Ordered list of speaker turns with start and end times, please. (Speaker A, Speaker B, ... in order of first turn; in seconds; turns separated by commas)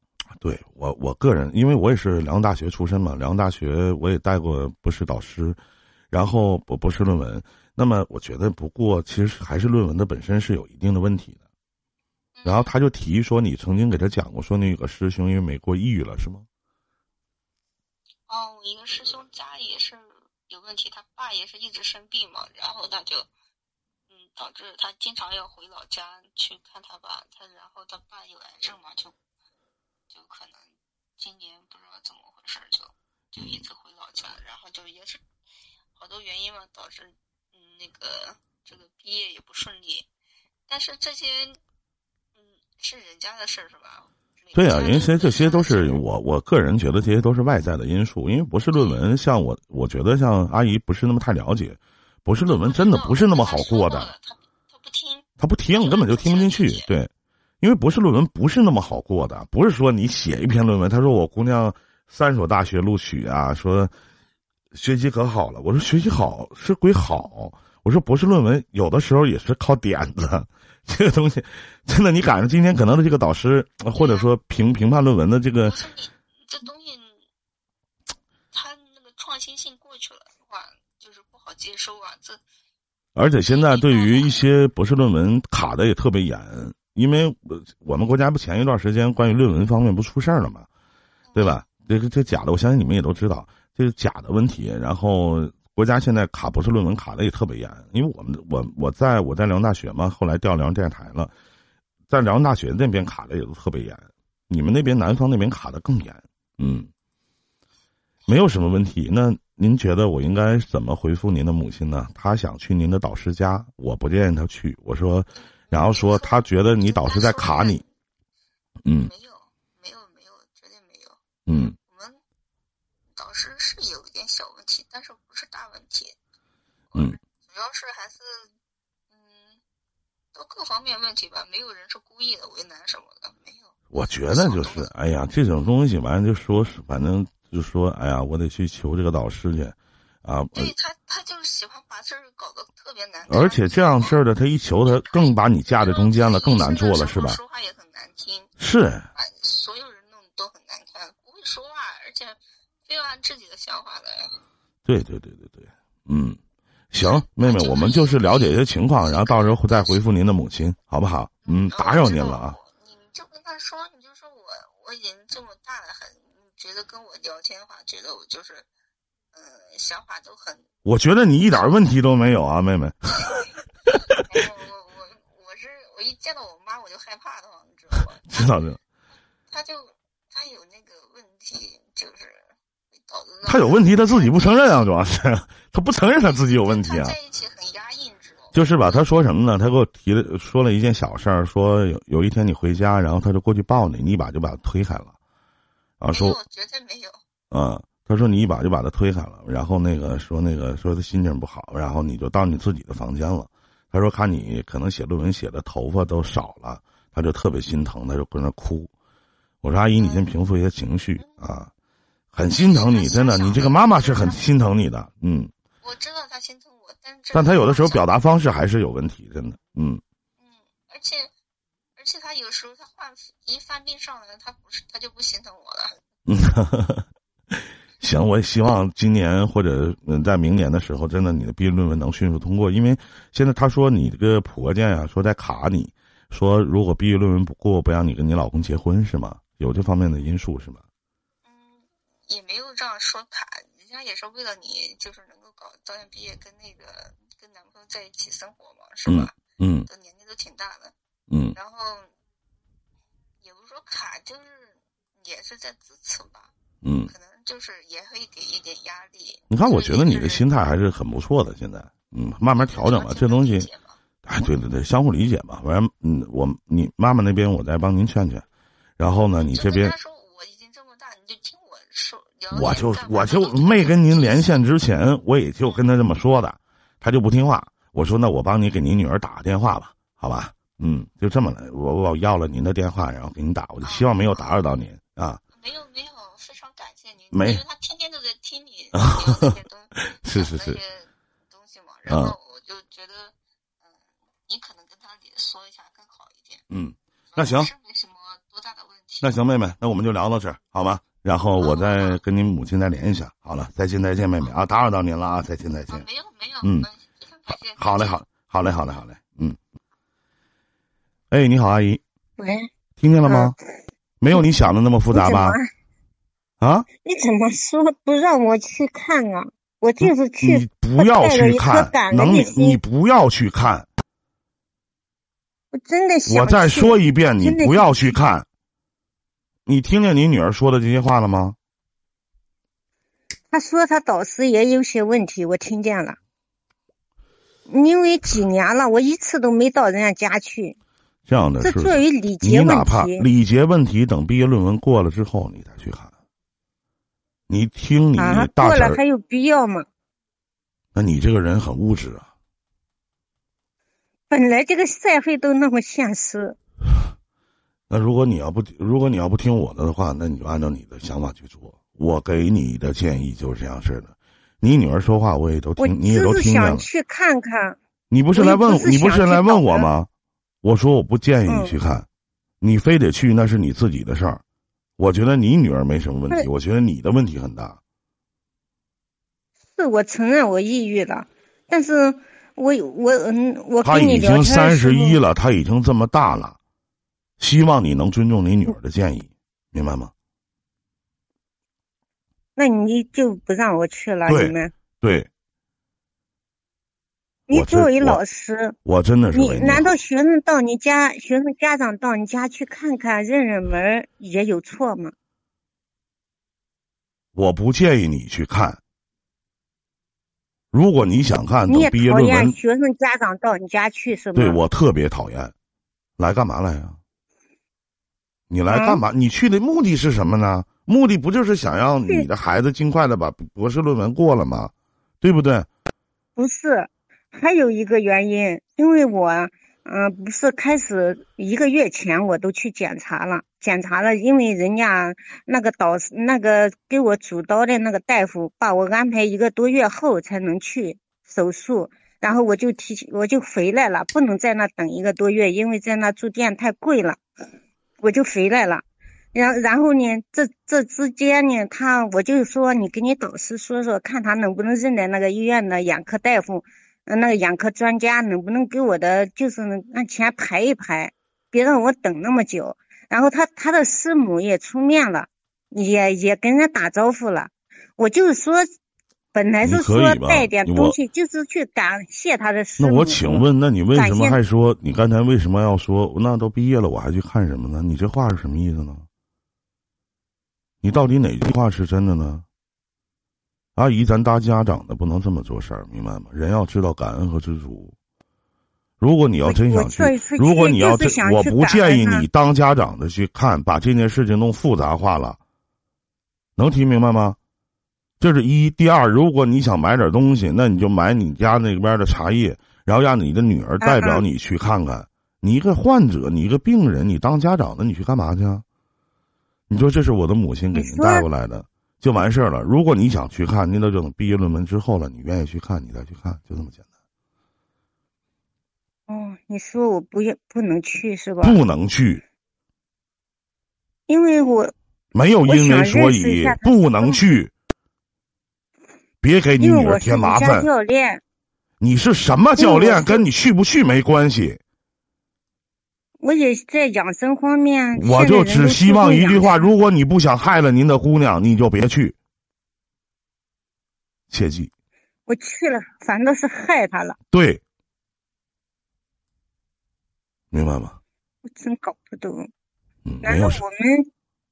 Speaker A: 0.4-5.6, Speaker A: 6.1-11.4, Speaker B: 12.3-12.7, Speaker A: 12.4-16.5, Speaker B: 18.3-23.3, Speaker B: 24.1-29.1, Speaker B: 30.1-35.2, Speaker B: 36.0-40.1, Speaker B: 40.7-41.6, Speaker B: 42.4-46.0, Speaker A: 44.5-54.1, Speaker B: 52.5-56.9, Speaker A: 55.4-57.1, Speaker A: 57.6-63.9, Speaker A: 64.7-75.8, Speaker B: 74.0-74.3, Speaker B: 75.6-77.3, Speaker B: 78.5-82.4, Speaker A: 83.2-90.7, Speaker B: 83.5-84.4, Speaker B: 91.3-91.6, Speaker A: 91.4-101.3, Speaker A: 102.1-106.9, Speaker A: 108.3-117.8, Speaker B: 115.7-117.9, Speaker A: 118.8-119.1, Speaker B: 119.0-121.2, Speaker A: 121.5-121.8, Speaker B: 121.8-122.2, Speaker B: 123.1-126.2, Speaker B: 126.9-128.5, Speaker B: 129.1-129.6, Speaker B: 130.3-134.9, Speaker A: 133.9-140.7, Speaker B: 140.5-144.2, Speaker A: 143.3-147.4, Speaker B: 144.8-148.5, Speaker A: 148.6-149.1, Speaker B: 149.2-154.4, Speaker A: 154.8-156.4, Speaker A: 156.9-162.6, Speaker B: 157.0-160.0, Speaker B: 161.5-168.7, Speaker B: 169.3-170.7, Speaker A: 170.8-174.3, Speaker B: 173.2-173.5, Speaker B: 174.2-178.6, Speaker A: 178.3-178.8, Speaker B: 179.5-184.6, Speaker A: 183.4-187.2, Speaker B: 186.2-189.1, Speaker A: 188.5-195.2, Speaker A: 196.0-196.4, Speaker B: 196.1-197.2, Speaker A: 197.5-208.9, Speaker A: 209.6-211.7, Speaker B: 210.0-210.2, Speaker B: 211.2-211.4, Speaker A: 212.3-215.5, Speaker B: 212.4-214.4, Speaker B: 215.8-218.1, Speaker A: 217.3-220.0, Speaker B: 220.4-221.3, Speaker B: 222.0-226.0, Speaker A: 226.3-240.8, Speaker B: 241.4-249.4, Speaker A: 249.1-249.9, Speaker B: 249.9-250.9, Speaker A: 251.3-251.6, Speaker B: 251.6-252.1, Speaker B: 253.4-256.5, Speaker A: 256.8-257.1, Speaker B: 257.1-260.5, Speaker A: 259.5-263.7, Speaker B: 262.6-264.0, Speaker A: 264.2-268.4, Speaker A: 269.0-269.9, Speaker B: 269.4-274.6, Speaker A: 272.5-285.4, Speaker B: 283.8-284.6, Speaker B: 285.5-296.6, Speaker A: 287.3-287.6, Speaker A: 288.9-290.8, Speaker A: 292.1-292.4, Speaker A: 296.7-297.7, Speaker B: 297.3-299.4, Speaker A: 299.2-306.1, Speaker B: 301.6-302.2, Speaker B: 305.9-308.2, Speaker A: 306.6-306.9, Speaker A: 307.8-309.6, Speaker A: 311.3-312.0, Speaker C: 312.4-312.7, Speaker A: 313.0-313.6, Speaker C: 313.3-313.6, Speaker A: 314.2-315.6, Speaker C: 315.1-315.7, Speaker A: 316.6-316.9, Speaker C: 317.0-322.8, Speaker A: 320.0-323.9, Speaker C: 325.7-328.2, Speaker A: 326.3-328.5, Speaker A: 329.7-331.6, Speaker C: 333.5-336.2, Speaker C: 337.7-340.8, Speaker A: 341.3-346.1, Speaker C: 341.6-343.3, Speaker A: 347.5-349.0, Speaker C: 348.2-349.9, Speaker A: 350.9-352.3, Speaker C: 354.3-356.6, Speaker A: 357.9-366.9, Speaker C: 365.8-367.8, Speaker A: 368.1-370.1, Speaker C: 368.4-369.9, Speaker A: 370.6-372.1, Speaker C: 371.5-371.8, Speaker A: 372.6-374.4, Speaker A: 375.0-377.8, Speaker C: 379.8-385.2, Speaker A: 383.8-386.6, Speaker A: 387.4-390.1, Speaker C: 392.6-394.7, Speaker A: 394.3-395.3, Speaker C: 397.5-398.8, Speaker A: 397.5-398.2, Speaker A: 398.9-399.9, Speaker C: 399.3-405.1, Speaker A: 407.4-408.8, Speaker A: 410.7-412.6, Speaker C: 411.7-414.6, Speaker A: 414.4-415.5, Speaker A: 416.2-417.0, Speaker A: 418.5-425.7, Speaker C: 418.7-419.0, Speaker C: 426.4-447.2, Speaker C: 448.0-468.7, Speaker C: 469.3-473.4, Speaker A: 469.6-471.0, Speaker A: 472.8-479.1, Speaker C: 473.9-474.4, Speaker A: 480.8-482.4, Speaker A: 483.8-487.9, Speaker A: 489.0-495.4, Speaker C: 489.4-492.3, Speaker A: 496.6-497.4, Speaker A: 498.2-508.6, Speaker C: 503.8-504.2, Speaker A: 509.7-516.8, Speaker C: 510.7-511.2, Speaker C: 519.1-521.6, Speaker A: 521.4-522.2, Speaker C: 524.1-524.7, Speaker A: 525.1-527.5, Speaker C: 525.5-527.2, Speaker A: 529.2-530.7, Speaker C: 529.6-531.2, Speaker A: 531.8-534.6, Speaker C: 532.6-533.2, Speaker C: 536.2-539.6, Speaker A: 538.0-542.1, Speaker A: 544.3-544.7, Speaker C: 545.3-547.2, Speaker A: 547.3-547.6, Speaker A: 550.5-551.0, Speaker C: 551.5-552.5, Speaker A: 553.0-553.6, Speaker C: 553.2-554.1